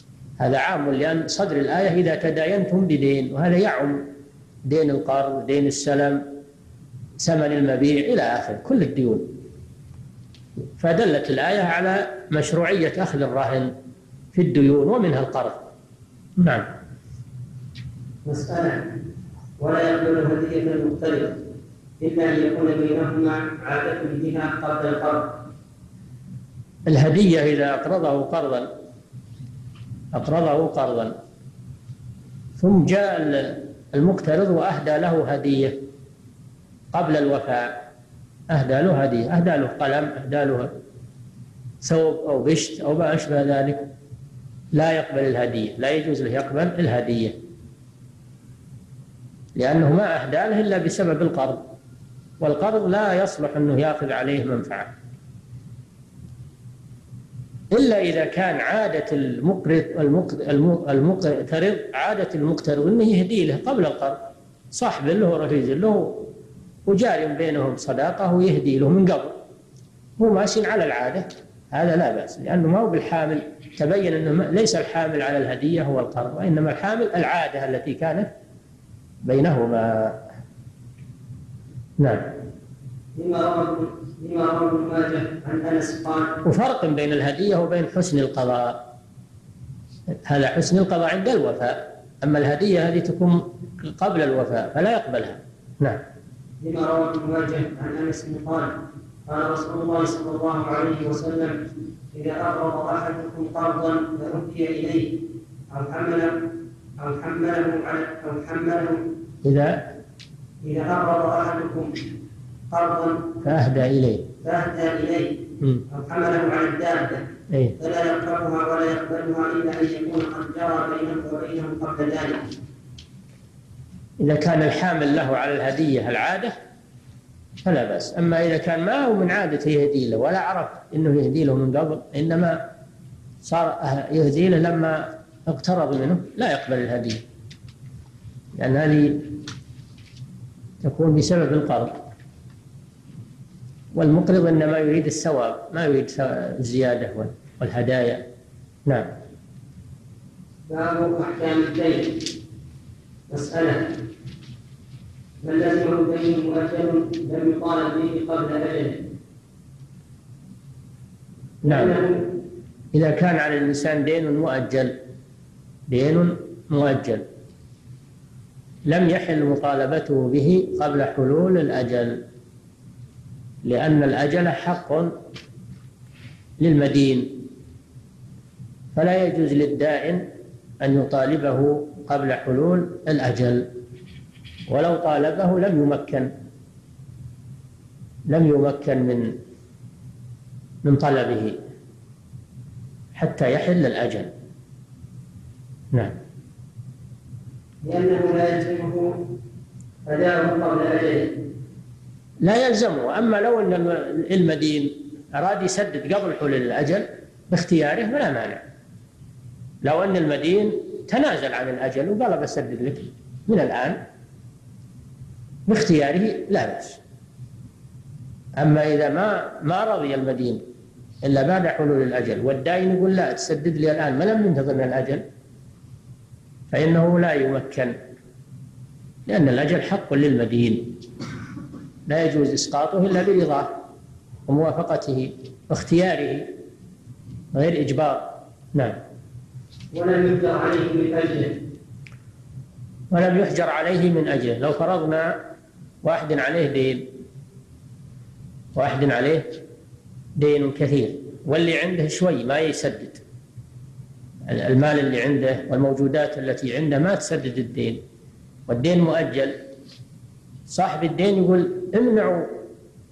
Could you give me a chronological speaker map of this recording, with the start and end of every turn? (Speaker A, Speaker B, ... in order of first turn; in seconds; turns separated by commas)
Speaker A: 0.4-4.0, Speaker A: 4.7-6.2, Speaker A: 7.2-9.3, Speaker A: 10.8-13.7, Speaker A: 14.3-15.7, Speaker A: 16.4-16.7, Speaker B: 18.2-18.9, Speaker B: 19.6-21.4, Speaker B: 22.0-25.4, Speaker A: 26.9-28.7, Speaker A: 30.1-31.2, Speaker A: 32.6-35.8, Speaker A: 36.9-37.8, Speaker A: 38.5-40.7, Speaker A: 41.8-43.9, Speaker A: 44.7-47.4, Speaker A: 49.6-51.7, Speaker A: 52.4-54.9, Speaker A: 57.7-66.3, Speaker A: 66.9-69.4, Speaker A: 70.2-78.3, Speaker A: 79.2-80.2, Speaker A: 82.0-82.2, Speaker B: 83.2-86.4, Speaker A: 86.4-88.8, Speaker A: 90.2-96.0, Speaker B: 96.6-98.7, Speaker B: 99.3-101.6, Speaker B: 102.1-105.1, Speaker B: 105.7-106.4, Speaker B: 107.0-109.0, Speaker A: 109.4-109.8, Speaker B: 110.6-112.0, Speaker B: 112.7-113.3, Speaker A: 113.4-114.3, Speaker B: 114.4-115.3, Speaker B: 115.9-117.2, Speaker A: 117.5-117.8, Speaker B: 117.8-122.4, Speaker A: 124.2-126.5, Speaker A: 127.6-132.6, Speaker A: 133.4-137.2, Speaker A: 138.6-139.4, Speaker A: 140.8-142.0, Speaker A: 143.9-148.2, Speaker A: 148.9-149.1, Speaker B: 150.7-152.3, Speaker B: 153.3-153.9, Speaker B: 155.4-159.0, Speaker B: 161.6-162.2, Speaker A: 161.7-162.0, Speaker A: 162.9-165.0, Speaker A: 165.9-167.2, Speaker A: 168.9-172.2, Speaker A: 173.6-175.2, Speaker A: 176.6-177.4, Speaker A: 178.9-180.3, Speaker A: 180.8-183.7, Speaker A: 184.7-186.3, Speaker A: 188.3-189.3, Speaker A: 190.8-191.6, Speaker A: 193.2-194.3, Speaker B: 197.8-199.1, Speaker B: 200.1-201.3, Speaker A: 202.4-208.6, Speaker A: 209.8-214.0, Speaker A: 215.7-217.0, Speaker A: 218.6-220.6, Speaker A: 221.2-225.2, Speaker A: 226.7-227.9, Speaker A: 229.3-231.0, Speaker A: 232.1-233.8, Speaker A: 234.5-236.5, Speaker A: 237.5-239.0, Speaker B: 239.9-241.6, Speaker A: 243.1-245.4, Speaker A: 246.0-247.1, Speaker A: 248.8-249.6, Speaker A: 250.4-253.2, Speaker A: 254.5-258.0, Speaker A: 258.7-259.6, Speaker A: 260.7-262.5